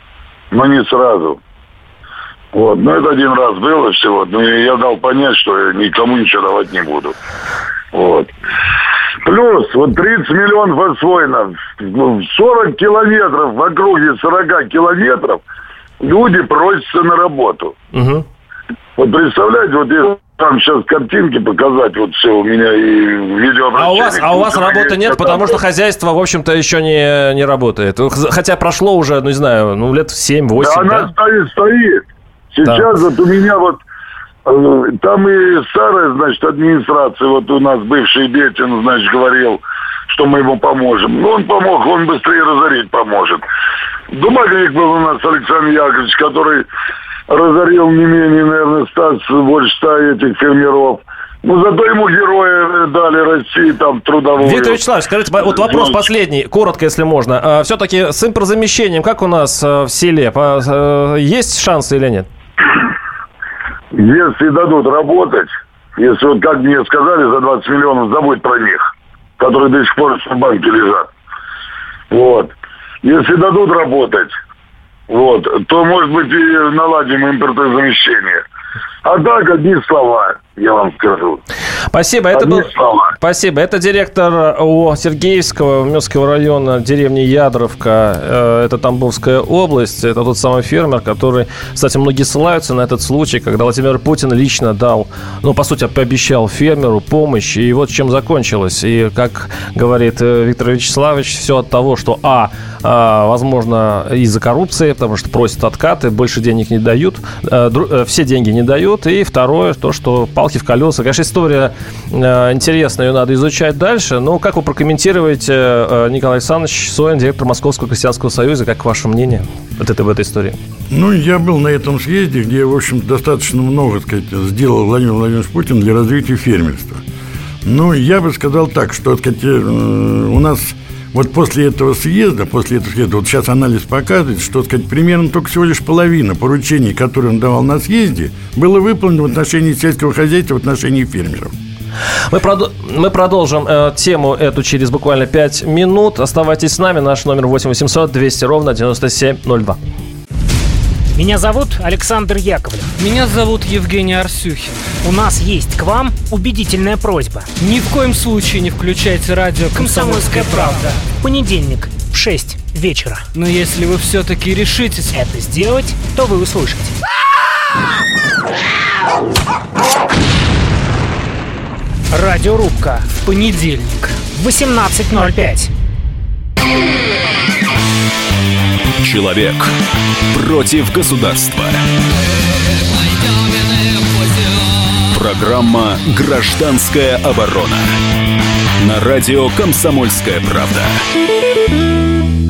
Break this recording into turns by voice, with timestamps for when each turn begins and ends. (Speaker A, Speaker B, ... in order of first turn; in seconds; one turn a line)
Speaker A: 0.5-1.4
Speaker A: 2.5-7.2
Speaker A: 7.9-8.3
Speaker A: 9.2-15.4
Speaker A: 16.0-17.7
Speaker B: 17.9-18.2
Speaker A: 19.0-25.6
Speaker B: 23.8-31.1
Speaker A: 30.6-33.8
Speaker A: 34.5-43.4
Speaker A: 44.1-46.7
Speaker A: 47.3-54.8
Speaker B: 54.4-62.3
Speaker A: 55.5-56.0
Speaker A: 63.9-71.1
Speaker A: 72.1-72.5
Speaker A: 73.0-74.3
Speaker A: 75.1-78.4
Speaker A: 79.0-81.4
Speaker B: 81.9-120.6
Speaker A: 82.3-83.1
Speaker C: 120.9-127.0
Speaker C: 127.6-141.5
Speaker B: 142.3-149.8
Speaker D: 151.2-152.9
Speaker E: 152.9-155.0
Speaker D: 155.0-157.5
Speaker E: 157.6-161.2
Speaker D: 159.8-163.2
Speaker E: 163.3-165.2
Speaker D: 165.1-166.9
Speaker D: 172.1-173.4
Speaker E: 173.2-174.1
Speaker D: 174.2-175.7
Speaker F: 179.0-179.7
Speaker F: 180.3-181.8
Speaker F: 185.1-187.9
Speaker F: 188.8-191.0